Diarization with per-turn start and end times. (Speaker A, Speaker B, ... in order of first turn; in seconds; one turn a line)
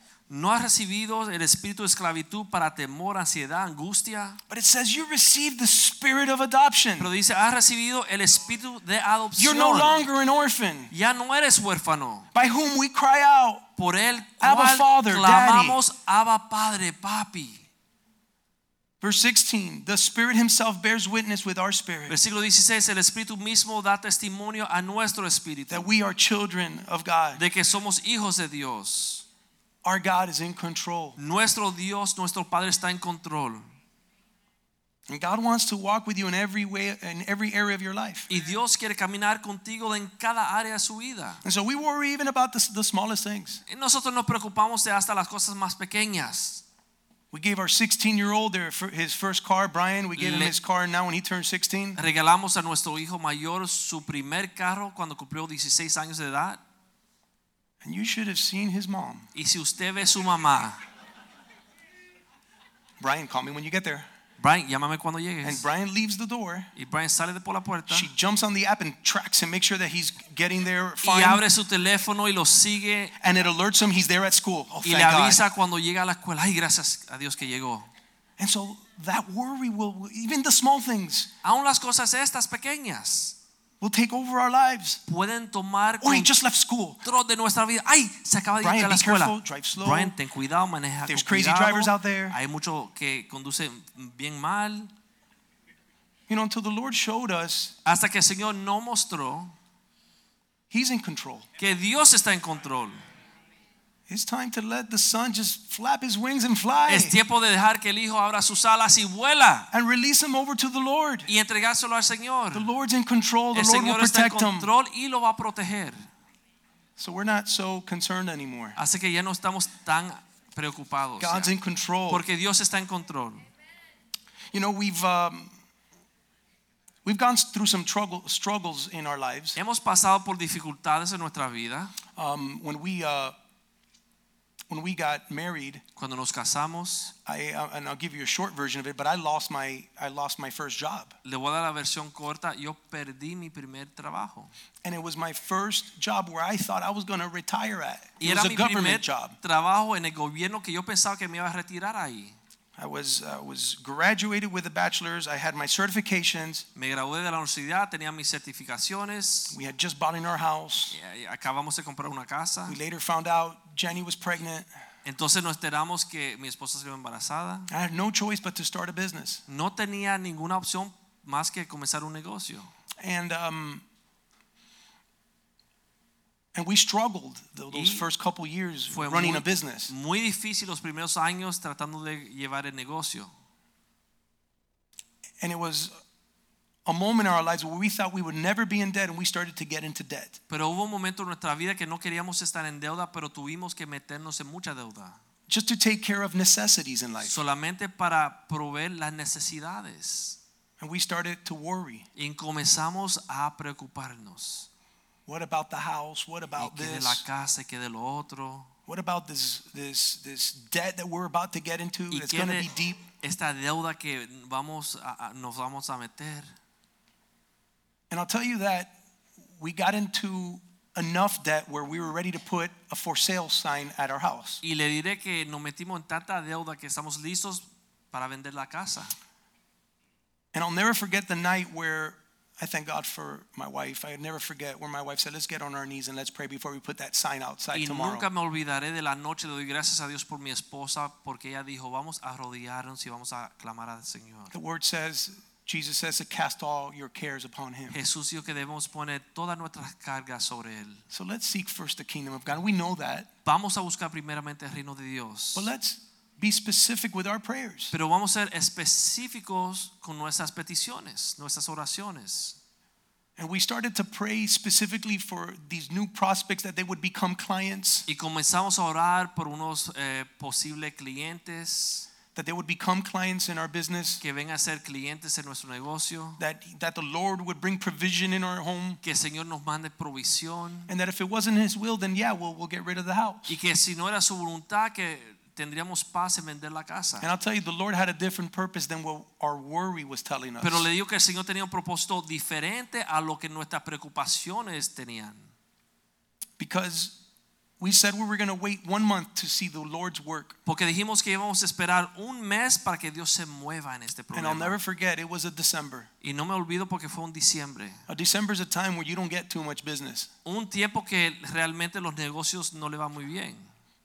Speaker A: 0.3-4.4
Speaker B: 4.5-7.1
Speaker A: 7.0-10.1
Speaker B: 9.4-10.9
Speaker A: 10.9-12.3
Speaker B: 12.3-13.7
Speaker A: 13.8-17.6
Speaker B: 14.4-15.8
Speaker B: 19.0-22.2
Speaker A: 22.1-25.9
Speaker B: 25.7-27.4
Speaker A: 27.4-29.2
Speaker B: 29.8-31.2
Speaker A: 31.2-33.6
Speaker B: 35.1-38.3
Speaker A: 38.3-41.4
Speaker B: 41.4-43.6
Speaker A: 43.7-46.6
Speaker B: 47.3-52.0
Speaker A: 50.2-50.5
Speaker A: 52.0-56.6
Speaker B: 57.8-59.3
Speaker A: 59.4-60.8
Speaker B: 63.0-64.1
Speaker A: 64.4-65.7
Speaker B: 65.4-66.7
Speaker A: 66.8-68.1
Speaker B: 67.9-71.4
Speaker A: 71.0-73.1
Speaker B: 73.2-75.4
Speaker A: 74.8-77.9
Speaker B: 78.4-81.3
Speaker A: 81.4-83.4
Speaker B: 83.8-85.0
Speaker A: 85.1-86.3
Speaker B: 86.0-87.0
Speaker A: 87.0-94.9
Speaker B: 88.6-90.2
Speaker B: 91.1-92.4
Speaker B: 96.3-97.7
Speaker A: 97.8-99.5
Speaker B: 100.7-101.5
Speaker A: 101.6-103.0
Speaker B: 104.1-107.2
Speaker A: 106.9-109.7
Speaker B: 109.7-111.3
Speaker A: 111.3-112.7
Speaker B: 112.5-114.7
Speaker A: 113.5-116.0
Speaker B: 117.0-118.8
Speaker A: 118.8-121.5
Speaker B: 121.2-122.2
Speaker A: 122.1-123.4
Speaker B: 124.5-125.5
Speaker B: 127.0-129.6
Speaker A: 129.6-131.9
Speaker B: 132.2-133.3
Speaker B: 134.7-135.8
Speaker A: 136.0-137.1
Speaker B: 137.2-141.1
Speaker A: 141.2-144.5
Speaker B: 144.8-149.4
Speaker A: 148.2-152.4
Speaker B: 152.8-156.7
Speaker A: 156.8-159.6
Speaker B: 159.5-161.0
Speaker A: 160.9-162.8
Speaker B: 162.7-164.7
Speaker A: 165.1-167.7
Speaker B: 167.7-169.4
Speaker A: 169.5-172.7
Speaker B: 173.0-173.8
Speaker B: 176.5-179.9
Speaker A: 177.7-178.1
Speaker A: 178.9-183.3
Speaker B: 185.4-185.9
Speaker B: 186.9-190.4
Speaker A: 190.5-195.2
Speaker B: 195.5-197.4
Speaker A: 197.2-200.4
Speaker B: 200.8-202.1
Speaker A: 202.2-204.7
Speaker B: 205.3-207.2
Speaker A: 206.6-208.7
Speaker B: 208.9-213.0
Speaker A: 212.1-212.7
Speaker A: 213.2-216.5
Speaker B: 218.1-218.9
Speaker B: 219.6-224.6
Speaker A: 224.6-229.1
Speaker B: 230.5-238.3
Speaker A: 237.7-244.5
Speaker B: 244.5-248.0
Speaker A: 247.9-251.0
Speaker B: 251.1-253.3
Speaker A: 253.4-255.7
Speaker B: 255.6-257.9
Speaker A: 257.9-262.6
Speaker B: 263.4-268.1
Speaker A: 268.1-272.1
Speaker B: 272.4-274.2
Speaker A: 274.2-276.4
Speaker B: 276.4-279.0
Speaker A: 279.0-280.9
Speaker B: 280.9-283.5
Speaker A: 283.5-287.3
Speaker B: 287.2-290.9
Speaker A: 290.6-295.5
Speaker B: 296.6-297.2
Speaker B: 297.8-300.6
Speaker A: 300.7-304.8
Speaker B: 304.3-306.1
Speaker A: 306.2-308.0
Speaker B: 308.1-310.3
Speaker A: 310.4-313.7